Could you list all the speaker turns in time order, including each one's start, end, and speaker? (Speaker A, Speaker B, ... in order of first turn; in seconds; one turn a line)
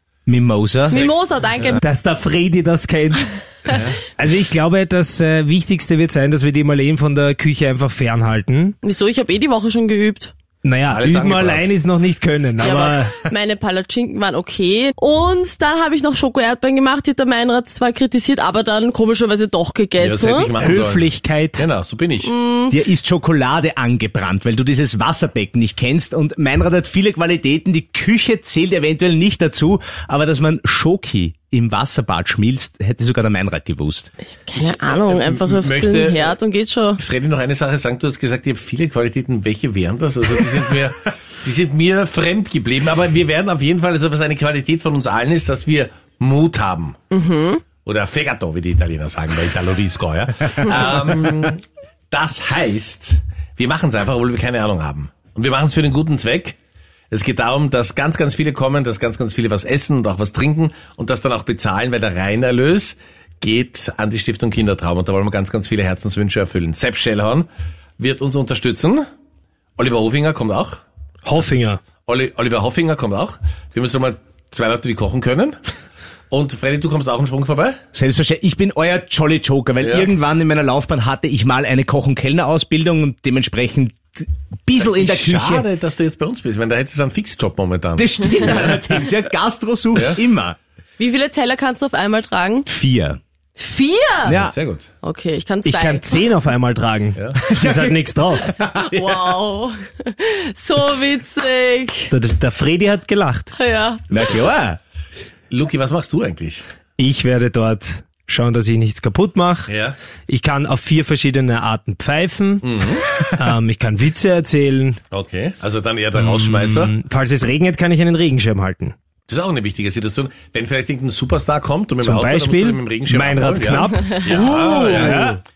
Speaker A: 0.3-1.0
Speaker B: 0.9-1.8
Speaker C: 0.9-1.2
Speaker D: 1.8-3.3
Speaker D: 4.2-8.8
Speaker B: 8.8-10.3
Speaker D: 10.6-13.2
Speaker C: 10.9-11.7
Speaker B: 12.6-20.6
Speaker C: 20.0-21.1
Speaker D: 20.6-21.6
Speaker C: 21.6-22.3
Speaker B: 22.2-22.8
Speaker A: 22.7-34.1
Speaker B: 34.4-37.0
Speaker C: 34.6-36.4
Speaker C: 37.0-47.0
Speaker B: 47.1-47.6
Speaker C: 47.8-51.6
Speaker C: 52.1-56.6
Speaker C: 57.1-67.5
Speaker C: 68.0-69.0
Speaker C: 69.8-70.8
Speaker D: 71.2-71.8
Speaker C: 72.1-75.6
Speaker C: 76.3-77.8
Speaker A: 77.9-85.7
Speaker C: 79.8-80.1
Speaker C: 84.8-88.6
Speaker A: 88.0-90.6
Speaker C: 89.9-90.2
Speaker B: 91.0-92.7
Speaker A: 92.7-93.2
Speaker B: 93.6-94.4
Speaker A: 94.2-94.5
Speaker C: 94.3-94.9
Speaker B: 95.0-96.3
Speaker D: 95.6-98.5
Speaker A: 97.5-98.8
Speaker B: 98.6-102.1
Speaker D: 102.1-103.5
Speaker B: 103.5-104.2
Speaker A: 104.1-104.8
Speaker C: 105.5-106.6
Speaker D: 107.0-109.7
Speaker C: 109.7-110.0
Speaker D: 110.3-115.0
Speaker C: 112.6-113.0
Speaker C: 115.1-116.9
Speaker D: 116.2-119.0
Speaker C: 119.3-125.3
Speaker D: 122.0-125.4
Speaker B: 123.9-124.2